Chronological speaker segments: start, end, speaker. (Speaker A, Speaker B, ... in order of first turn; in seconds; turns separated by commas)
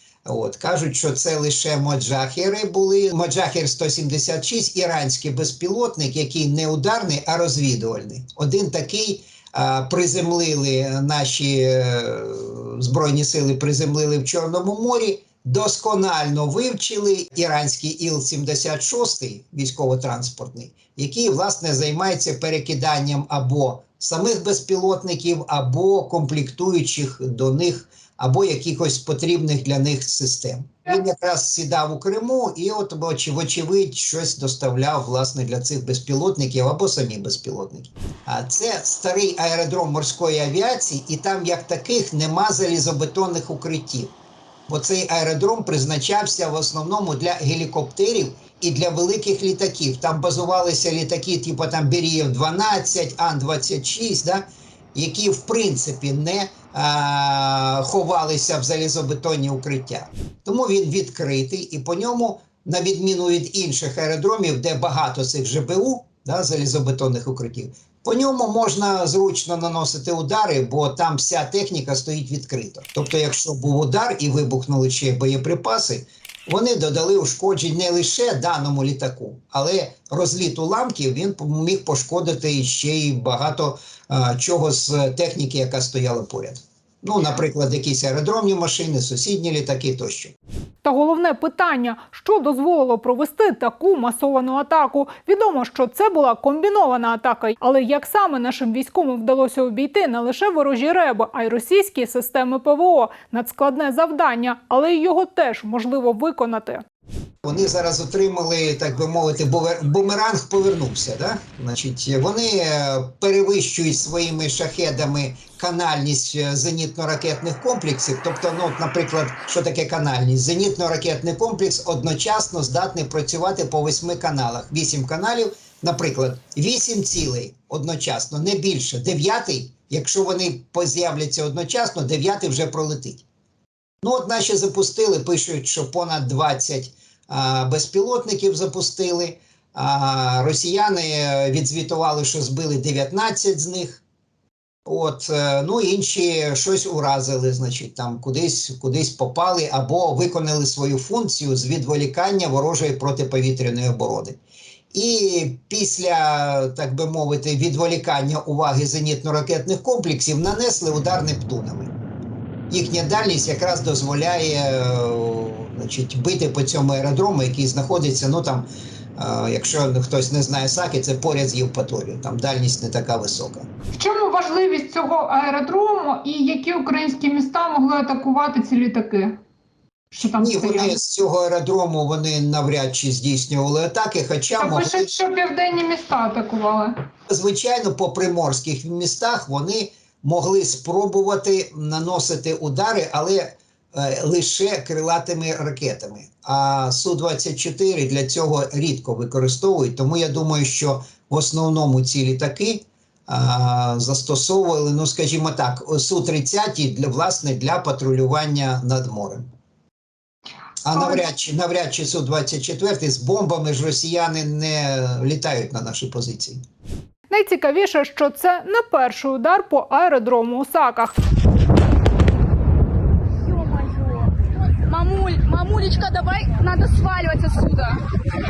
Speaker A: 0.2-44.1, Speaker A: 44.7-90.3, Speaker B: 90.8-106.8, Speaker A: 107.4-133.2, Speaker A: 134.0-144.0, Speaker A: 144.8-154.4, Speaker A: 154.9-161.9, Speaker A: 162.7-173.7, Speaker B: 173.9-179.4, Speaker B: 180.1-180.9, Speaker A: 180.3-185.1, Speaker B: 184.6-187.0, Speaker A: 187.3-209.5, Speaker A: 210.8-216.6, Speaker B: 217.3-221.1, Speaker C: 223.6-224.3, Speaker C: 224.8-228.0